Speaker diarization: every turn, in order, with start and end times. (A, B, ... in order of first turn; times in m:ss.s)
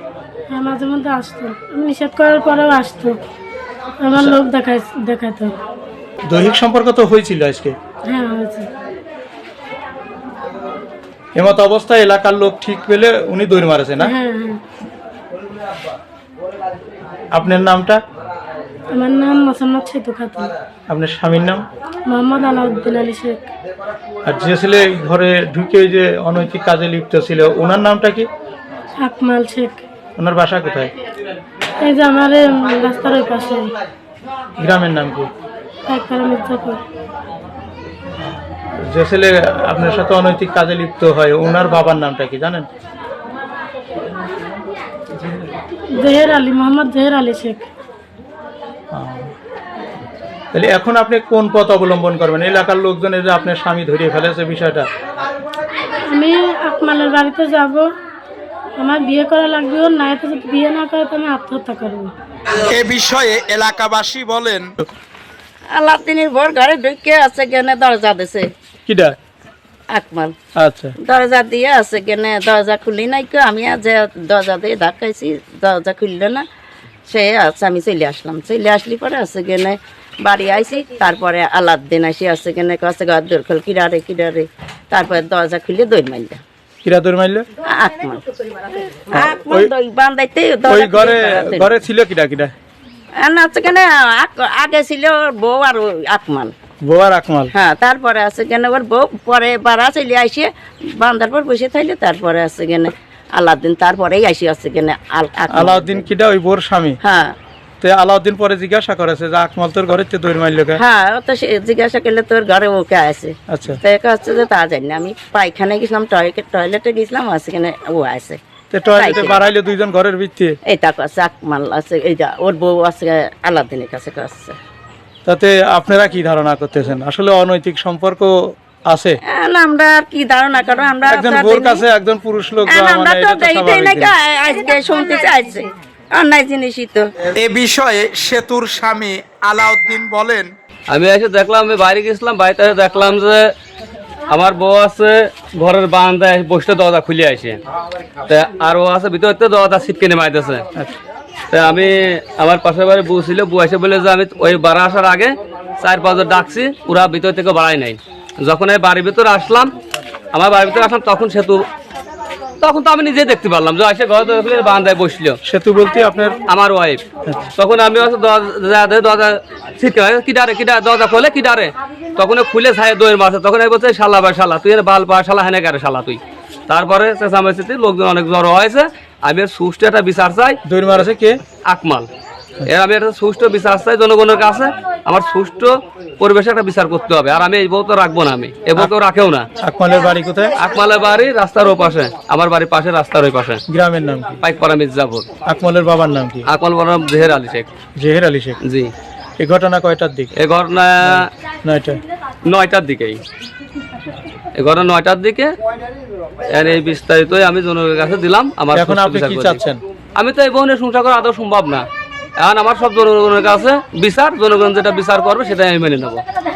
0:00.5-0:03.2 A
0:04.0-0:05.5 A
0:04.1-0:04.4 B
0:06.3-0:07.8 B
0:08.0-0:08.7 A
0:11.4-0:14.1 B
0:14.0-0:14.6 A
0:17.3-0:18.0 B
0:18.9-0:20.5 A
0:20.9-0:21.6 B
0:22.1-0:23.5 A
0:24.2-0:28.3 B
0:29.0-0:29.8 A
0:30.2-0:30.9 B
0:31.8-0:33.7 A
0:34.6-0:35.3 B
0:35.9-0:36.8 A
0:38.2-0:42.7 B
0:46.0-0:47.7 A
0:48.9-0:49.3 B
0:50.5-0:54.9 B
0:56.1-0:57.9 A
0:58.8-1:02.1 A
1:02.7-1:04.7 C
1:05.7-1:08.5 D
1:08.8-1:09.2 B
1:09.9-1:10.3 D
1:10.6-1:11.0 B
1:11.0-1:16.4 D
1:17.1-1:26.4 D
1:26.8-1:27.5 B
1:27.6-1:31.7 D
1:29.1-1:29.7 B
1:30.6-1:32.5 B
1:33.2-1:36.5 D
1:36.8-1:37.5 B
1:37.5-1:46.0 D
1:45.5-1:47.0 B
1:47.0-1:47.4 D
1:47.8-1:50.8 B
1:50.8-1:58.4 D
1:53.5-1:53.8 B
1:58.7-2:00.6 B
1:59.0-1:59.4 D
2:00.6-2:04.6 D
2:05.2-2:08.3 B
2:08.9-2:09.2 B
2:09.3-2:11.8 D
2:11.1-2:14.1 B
2:12.7-2:17.1 D
2:17.4-2:20.4 C
2:20.9-2:23.5 E
2:24.3-2:27.6 E
2:28.3-2:30.6 E
2:31.5-2:39.7 E
2:40.3-2:41.7 E
2:42.6-2:45.4 E
2:45.4-2:46.4 B
2:46.5-2:47.0 E
2:47.2-2:47.5 B
2:47.6-3:00.6 E
3:00.6-3:01.4 B
3:01.7-3:02.1 E
3:02.6-3:09.5 E
3:09.6-3:10.6 B
3:10.6-3:13.6 E
3:13.7-3:14.4 B
3:14.4-3:15.3 E
3:15.4-3:16.4 B
3:16.5-3:17.7 E
3:18.0-3:18.6 B
3:18.6-3:18.9 E
3:19.4-3:20.3 B
3:20.4-3:21.3 E
3:21.0-3:22.0 B
3:22.5-3:23.2 E
3:24.6-3:25.5 E
3:26.5-3:29.6 E
3:28.7-3:29.8 B
3:30.2-3:31.8 E
3:32.4-3:36.2 E